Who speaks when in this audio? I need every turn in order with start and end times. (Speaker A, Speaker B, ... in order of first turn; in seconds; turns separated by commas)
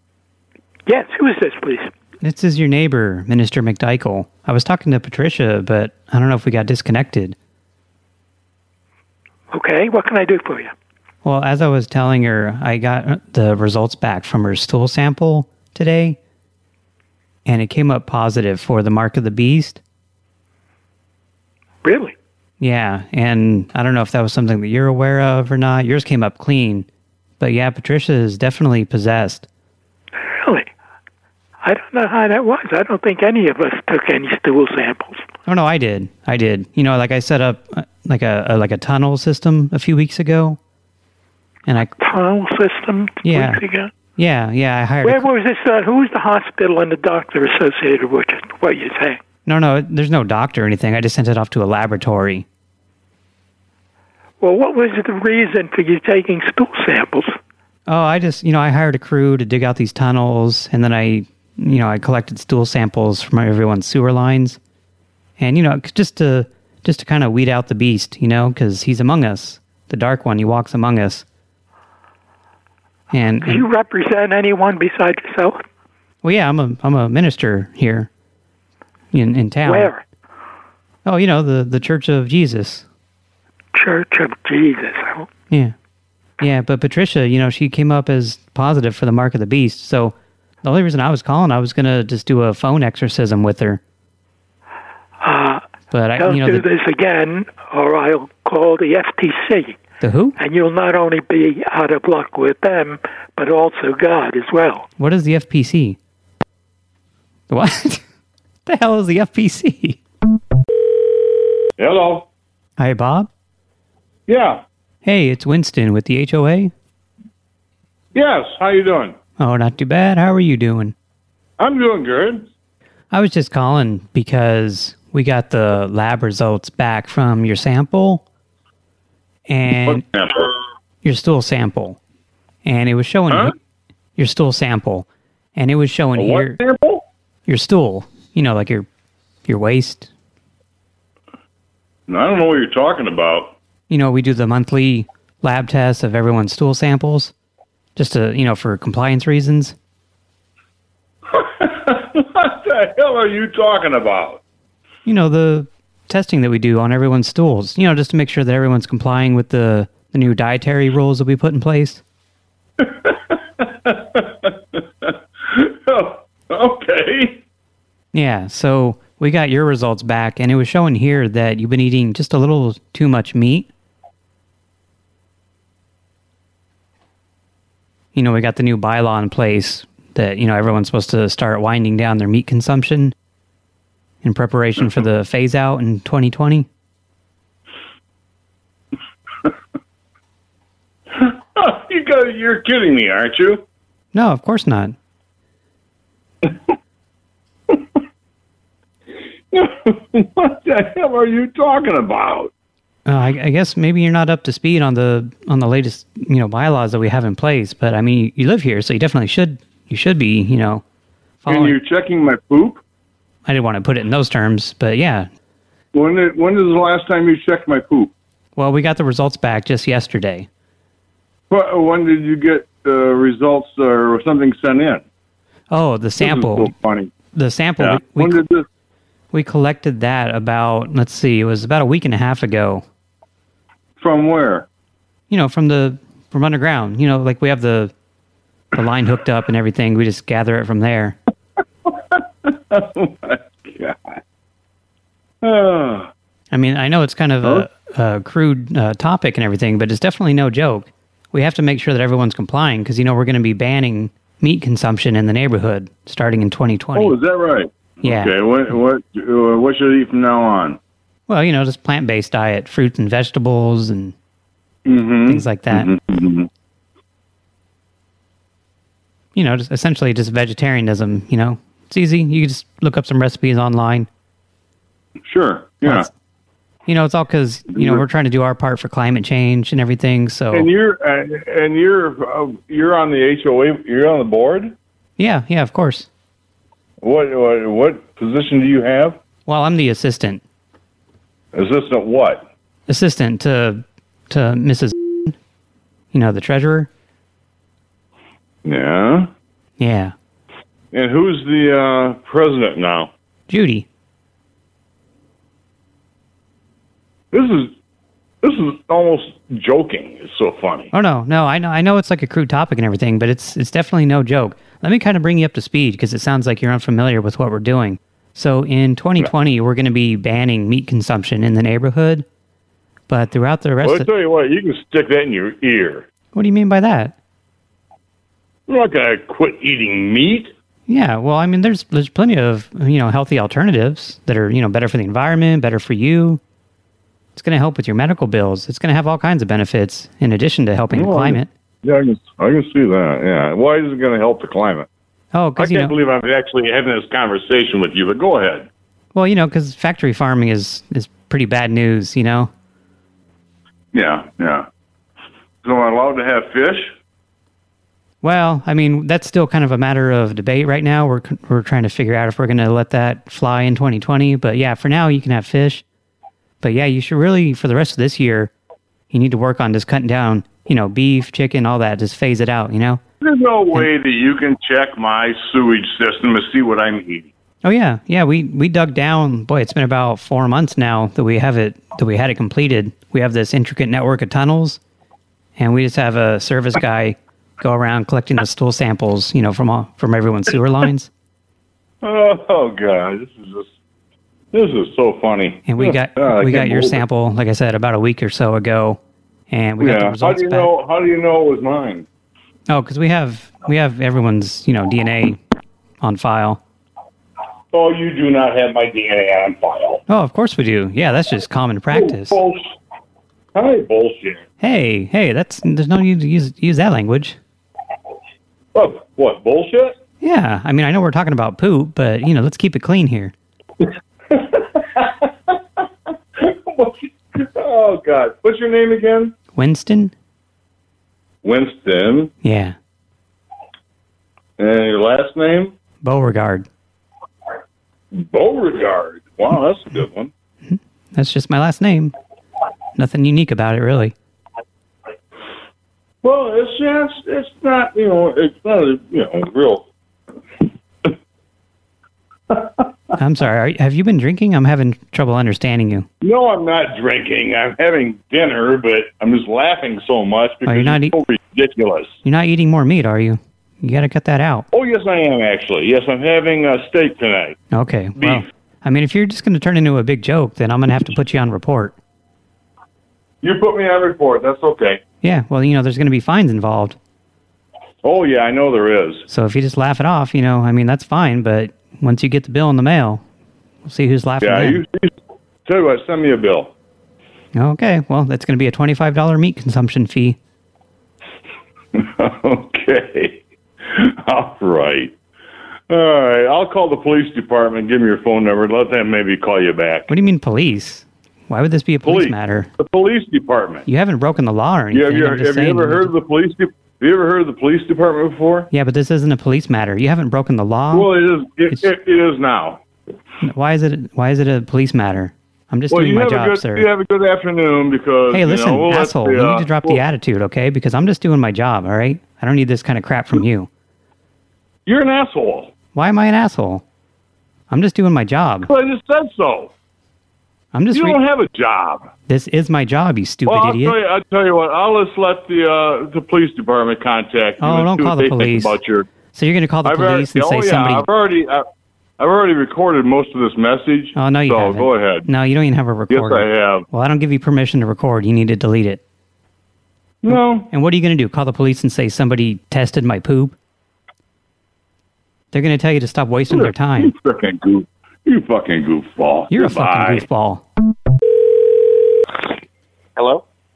Speaker A: 0.9-1.9, Speaker B: 2.2-7.4, Speaker A: 9.5-10.7, Speaker B: 11.2-16.2, Speaker B: 17.5-19.8, Speaker A: 21.8-22.1, Speaker B: 22.6-26.9, Speaker B: 27.4-29.5, Speaker A: 30.3-30.7, Speaker A: 31.6-35.2, Speaker B: 35.5-40.6, Speaker B: 41.7-42.0, Speaker A: 42.0-43.9, Speaker B: 43.2-43.6, Speaker B: 44.2-45.3, Speaker A: 45.0-49.2, Speaker B: 49.5-52.5, Speaker A: 54.4-57.4, Speaker B: 57.9-64.6, Speaker B: 65.4-71.2, Speaker B: 73.1-73.7, Speaker A: 73.4-75.6, Speaker B: 76.2-78.1, Speaker B: 79.1-79.9, Speaker A: 79.7-80.0, Speaker B: 81.0-82.9, Speaker A: 83.8-85.3, Speaker B: 85.5-85.8, Speaker B: 86.4-93.8, Speaker A: 95.2-99.8, Speaker B: 95.9-96.7, Speaker B: 100.0-100.4, Speaker A: 100.4-104.9, Speaker B: 105.0-106.0, Speaker B: 107.5-108.0, Speaker B: 108.7-110.0, Speaker C: 111.8-112.3, Speaker B: 112.8-113.3, Speaker C: 114.3-114.6, Speaker B: 115.0-116.7, Speaker C: 118.2-119.2, Speaker B: 119.4-121.0, Speaker C: 121.6-122.5, Speaker B: 123.1-128.2, Speaker B: 129.5-130.1, Speaker C: 129.8-130.4, Speaker B: 131.0-132.0, Speaker B: 132.7-133.5, Speaker B: 134.2-136.6, Speaker C: 136.2-137.0, Speaker B: 137.5-138.9, Speaker B: 139.5-140.1, Speaker C: 142.1-143.6, Speaker B: 143.9-147.3, Speaker B: 148.0-149.8, Speaker C: 151.3-154.4, Speaker B: 155.1-162.0, Speaker C: 162.8-167.4, Speaker B: 168.1-173.7, Speaker B: 178.1-183.2, Speaker B: 184.2-186.7, Speaker C: 191.2-193.6, Speaker B: 194.1-195.0, Speaker C: 199.5-202.5, Speaker B: 203.1-210.8, Speaker B: 211.4-211.8, Speaker C: 211.5-212.8, Speaker B: 213.5-215.3, Speaker C: 215.9-218.1, Speaker B: 218.6-220.5, Speaker C: 221.5-225.0, Speaker B: 225.7-226.7, Speaker C: 226.2-227.1, Speaker B: 227.3-228.4, Speaker C: 227.8-228.7, Speaker B: 229.3-232.8, Speaker C: 234.0-234.7, Speaker B: 235.3-237.9, Speaker B: 238.8-241.2, Speaker C: 241.9-244.1, Speaker C: 245.4-246.1, Speaker B: 246.5-257.2, Speaker C: 247.4-247.7, Speaker C: 256.9-260.8, Speaker B: 258.0-258.3, Speaker B: 261.3-264.1, Speaker C: 264.9-266.5, Speaker B: 265.3-265.9, Speaker B: 269.4-274.1, Speaker C: 275.3-276.1, Speaker B: 275.8-276.1, Speaker B: 276.9-280.7, Speaker C: 277.7-278.0, Speaker C: 280.5-284.7, Speaker B: 285.2-286.1, Speaker C: 287.0-289.2, Speaker B: 289.5-290.4, Speaker C: 291.5-292.4, Speaker B: 292.9-295.4, Speaker B: 296.1-296.9, Speaker C: 298.6-299.3, Speaker B: 299.8-300.1, Speaker C: 300.9-303.1, Speaker B: 303.5-303.9, Speaker C: 307.3-307.7, Speaker C: 308.4-310.9, Speaker B: 310.9-322.3, Speaker B: 323.1-324.1, Speaker C: 323.8-326.1, Speaker B: 326.3-327.1, Speaker C: 328.7-330.5, Speaker B: 330.9-336.4, Speaker B: 337.4-341.5, Speaker C: 340.9-344.9, Speaker B: 345.3-345.9, Speaker C: 345.6-348.7, Speaker B: 349.1-352.5, Speaker C: 353.9-354.7, Speaker C: 355.6-356.9, Speaker B: 358.2-365.8, Speaker B: 366.6-368.5, Speaker B: 369.1-373.0, Speaker C: 373.2-377.3, Speaker B: 377.6-384.8, Speaker B: 385.6-391.1, Speaker C: 392.0-393.7, Speaker C: 394.5-397.0, Speaker B: 395.7-400.7, Speaker C: 399.8-402.1, Speaker B: 402.7-405.4, Speaker B: 406.0-406.6, Speaker C: 407.7-410.0, Speaker B: 410.1-412.4, Speaker C: 411.9-412.7, Speaker C: 413.6-414.4, Speaker B: 414.6-417.4, Speaker C: 418.8-420.0, Speaker B: 420.2-423.3, Speaker C: 424.3-425.3, Speaker C: 426.4-429.4, Speaker B: 429.5-430.1, Speaker C: 431.4-432.3, Speaker B: 432.4-432.8, Speaker C: 434.6-435.7, Speaker B: 436.0-436.7, Speaker C: 438.1-440.3, Speaker B: 440.6-442.1, Speaker B: 443.0-444.1, Speaker C: 446.2-449.9, Speaker B: 453.2-456.1, Speaker C: 456.2-462.2, Speaker B: 460.7-461.2, Speaker B: 462.2-464.7, Speaker C: 464.7-467.6, Speaker B: 467.7-472.0, Speaker C: 468.2-468.4, Speaker C: 473.4-475.0, Speaker B: 475.2-477.0, Speaker C: 478.0-479.3, Speaker B: 479.3-483.2, Speaker B: 483.9-484.8, Speaker C: 484.4-485.1, Speaker C: 485.7-486.7, Speaker B: 487.5-490.4, Speaker C: 491.9-495.1, Speaker C: 495.9-500.1, Speaker B: 500.1-502.7, Speaker C: 502.0-503.9, Speaker B: 503.9-506.1, Speaker C: 504.9-508.7, Speaker B: 508.7-511.1, Speaker C: 510.9-512.8, Speaker B: 513.4-516.9, Speaker C: 515.9-520.0, Speaker B: 518.3-523.7, Speaker C: 524.9-525.7, Speaker B: 525.9-526.8, Speaker B: 527.7-528.7, Speaker C: 528.7-529.7, Speaker B: 530.7-531.2, Speaker C: 530.9-532.1, Speaker B: 532.3-534.0, Speaker C: 533.5-539.1, Speaker B: 537.6-538.8, Speaker B: 539.3-541.1, Speaker C: 539.8-541.7, Speaker C: 542.2-545.3, Speaker B: 544.1-549.0, Speaker C: 546.1-546.9, Speaker C: 550.2-550.7, Speaker B: 550.3-553.6, Speaker B: 555.5-557.1, Speaker C: 556.5-560.2, Speaker B: 559.5-560.6